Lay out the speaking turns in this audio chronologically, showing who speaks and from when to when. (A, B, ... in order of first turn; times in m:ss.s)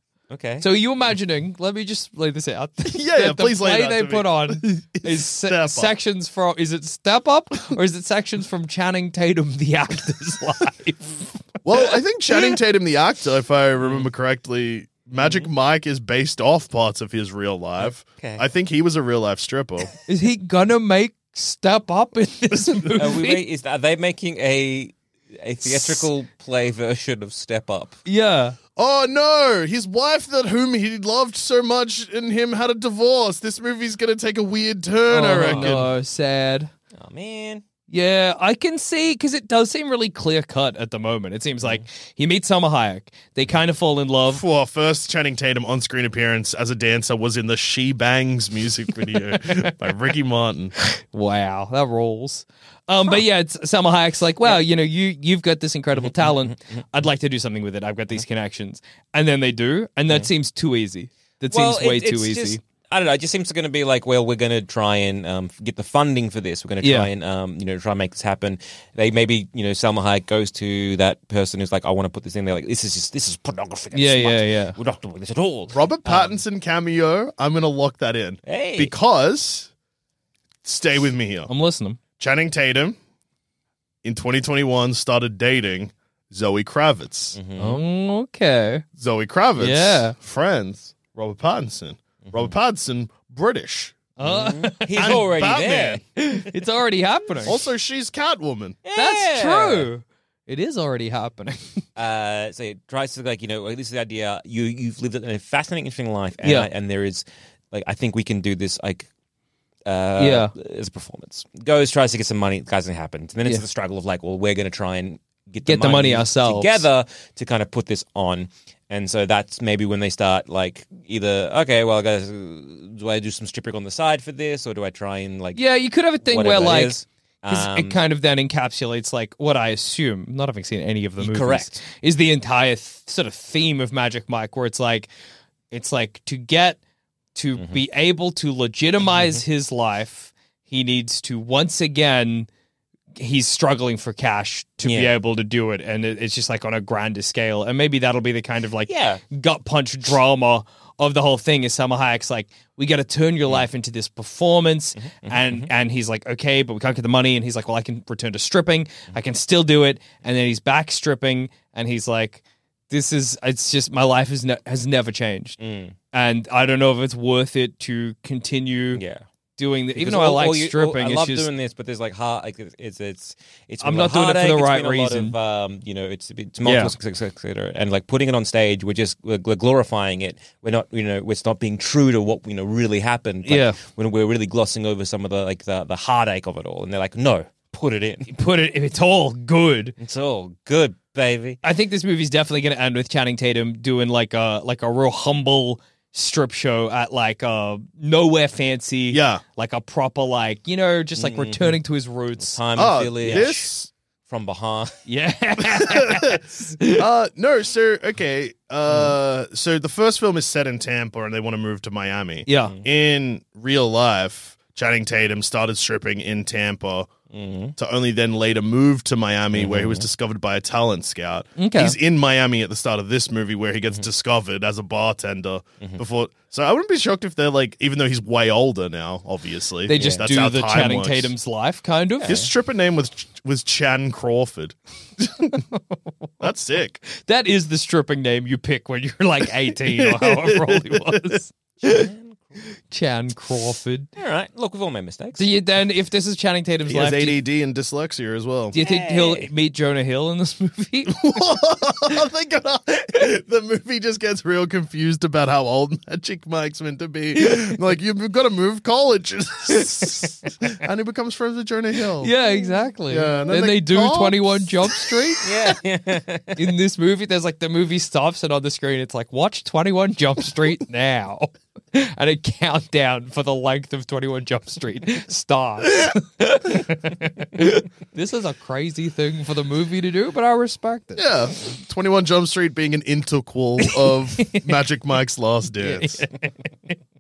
0:00.3-0:00.7 A
0:00.6-0:11.4 B
0:02.9-0:05.9 C
0:11.6-0:19.9 C
0:13.8-0:14.1 A
0:15.2-0:15.5 A
0:17.8-0:18.4 A
0:20.1-0:23.4 B
0:23.0-0:28.0 A
0:28.1-0:28.6 B
0:28.8-0:35.9 C
0:35.1-0:36.7 B
0:35.4-0:35.9 A
0:37.0-0:37.6 A
0:37.9-0:44.4 B
0:44.3-0:50.7 C
0:50.8-1:02.6 B
0:56.0-0:56.5 A
1:01.5-1:16.4 A
1:06.8-1:07.1 B
1:13.9-1:14.8 B
1:15.7-1:19.7 C
1:18.5-1:18.9 A
1:20.6-1:21.5 C
1:21.5-1:22.0 B
1:22.2-1:23.0 C
1:24.0-1:27.4 C
1:27.4-1:27.8 A
1:27.6-1:28.8 B
1:29.0-1:34.0 C
1:29.6-1:30.2 B
1:32.2-1:32.5 A
1:34.2-1:35.2 B
1:34.2-1:36.0 A
1:35.0-1:36.0 C
1:36.2-1:37.6 B
1:37.5-1:38.8 C
1:38.8-1:39.9 A
1:39.0-1:41.8 B
1:42.0-1:49.1 A
1:46.4-1:46.7 B
1:49.9-2:05.6 A
1:50.2-1:50.5 B
1:55.7-1:56.9 B
2:05.6-2:15.1 B
2:06.2-2:08.0 A
2:11.2-2:11.8 A
2:15.7-2:16.8 B
2:17.4-2:22.5 B
2:19.2-2:19.4 A
2:23.2-2:45.6 B
2:24.8-2:25.1 A
2:28.9-2:29.2 A
2:35.0-2:35.7 A
2:45.6-2:46.0 A
2:46.1-2:49.0 B
2:48.9-2:49.2 A
2:49.6-2:51.5 B
2:50.0-3:08.3 A
2:53.8-2:55.4 B
2:56.6-2:56.9 B
3:03.5-3:03.8 B
3:08.3-3:10.0 B
3:10.0-3:11.6 A
3:11.6-3:22.6 B
3:19.1-3:19.4 C
3:21.2-3:21.8 A
3:22.4-3:23.7 A
3:22.8-3:23.9 C
3:24.3-3:25.0 A
3:25.1-3:27.1 B
3:25.7-3:37.1 C
3:32.5-3:32.8 B
3:37.3-3:37.8 A
3:37.8-3:51.4 C
3:39.5-3:40.1 A
3:41.6-3:42.0 B
3:49.9-3:52.4 B
3:49.9-3:50.3 A
3:52.2-3:52.5 A
3:52.2-3:55.6 C
3:56.4-3:57.0 C
3:57.1-4:02.1 B
3:59.8-4:01.4 C
4:01.8-4:02.6 A
4:02.9-4:04.1 B
4:04.2-4:05.5 A
4:05.4-4:07.4 B
4:06.9-4:08.8 C
4:08.7-4:11.3 B
4:08.8-4:09.5 A
4:11.1-4:22.3 C
4:17.4-4:17.8 B
4:22.2-4:25.5 B
4:23.1-4:25.0 C
4:25.4-4:26.7 A
4:26.6-4:41.3 B
4:41.2-4:46.2 C
4:43.8-4:44.7 B
4:45.8-4:46.7 B